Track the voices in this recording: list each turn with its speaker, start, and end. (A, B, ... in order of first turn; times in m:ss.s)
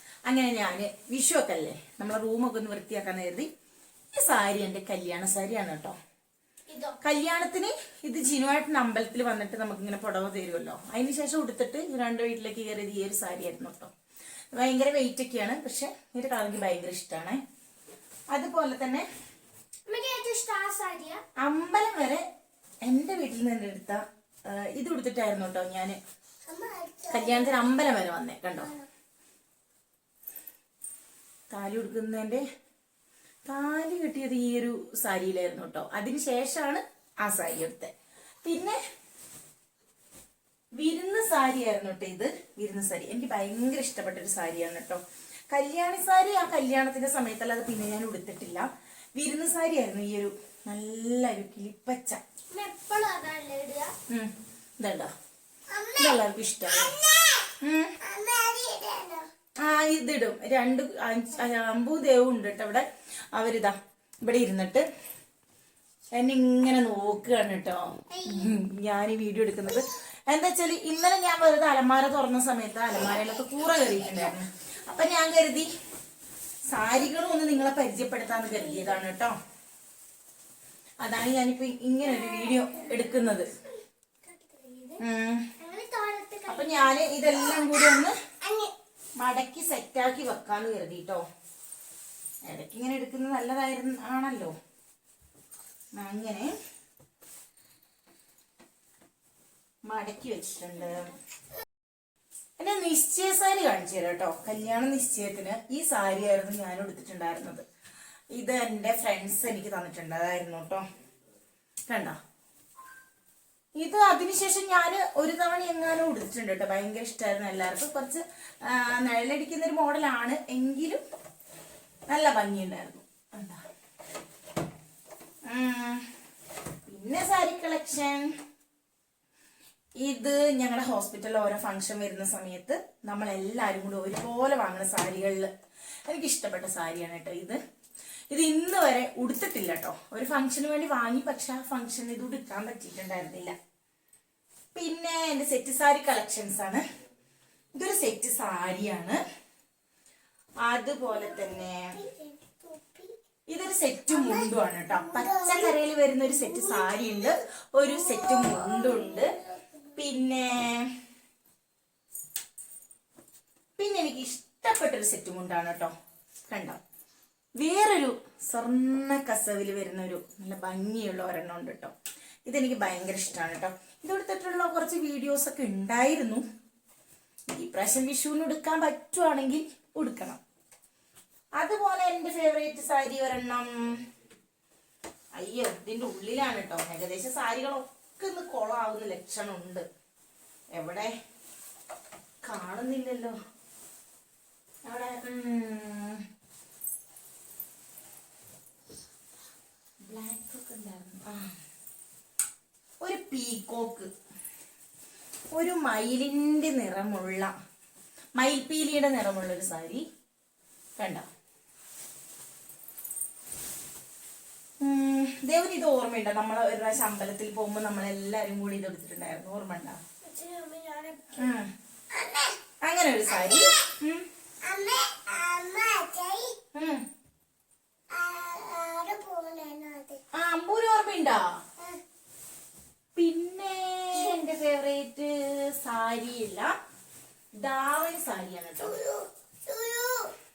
0:00.3-0:03.5 A
0:04.1-0:06.0 A
0:06.7-0:07.0 B
0:07.0-0:13.9 A
0:14.6-0:17.4 A
0:18.3-0:19.1 A
0:19.9-0:21.2 B
0:21.4-0:22.2 A
0:22.9-0:26.0 A
0:26.5-0:27.6 B
0:27.1-0:28.7 A
0:28.6-0:28.9 B
0:31.5-0:32.4 A
0:33.5-0:37.9 A
0:38.4-0:38.8 A
0:40.8-0:52.2 A
0:52.5-0:53.9 B
0:54.1-0:55.1 A
0:55.7-0:59.3 B
0:56.0-0:56.9 A
0:57.6-0:57.9 A
0:59.6-1:04.8 A
1:06.2-1:15.7 A
1:08.1-1:08.5 B
1:16.7-1:19.4 A
1:21.0-1:23.5 A
1:22.1-1:23.2 B
1:24.3-1:25.0 B
1:25.0-1:25.5 A
1:25.6-1:28.7 B
1:26.5-1:28.2 A
1:29.2-1:31.2 A
1:32.5-1:34.5 A
1:36.0-1:36.5 A
1:39.9-1:41.1 A
1:42.6-1:47.6 A
1:48.4-1:50.8 A
1:51.9-1:52.2 A
1:53.8-2:01.0 A
2:02.1-2:03.6 A
2:05.5-2:06.1 A
2:06.9-2:08.4 A
2:10.0-2:15.5 A
2:16.1-2:17.6 A
2:18.3-2:23.6 A
2:24.8-2:26.8 A
2:27.8-2:29.2 A
2:30.7-2:31.9 A
2:31.0-2:33.2 B
2:33.5-2:39.3 A
2:34.1-2:35.8 B
2:36.3-2:37.3 B
2:37.8-2:39.7 B
2:40.0-2:40.9 A
2:43.8-2:45.9 A
2:46.5-2:46.8 A
2:47.6-2:51.9 A
2:52.5-2:56.4 A
2:57.5-3:00.4 A
3:01.6-3:04.0 A
3:05.4-3:09.8 A
3:10.7-3:11.1 A
3:12.4-3:13.4 A
3:14.9-3:16.2 A
3:20.1-3:21.5 A
3:23.0-3:24.1 A
3:25.5-3:27.5 A
3:28.4-3:30.0 A
3:31.0-3:31.3 A
3:34.8-3:40.0 A
3:40.3-3:41.3 B
3:41.4-3:41.7 A
3:42.1-3:42.6 B
3:42.8-3:44.2 A
3:43.3-3:43.9 B
3:44.6-3:46.6 B
3:46.8-3:47.0 A
3:48.1-3:50.2 B
3:50.3-3:51.4 A
3:53.2-3:56.7 A
3:54.1-3:54.4 B
3:57.6-3:59.0 A
3:58.8-4:00.3 B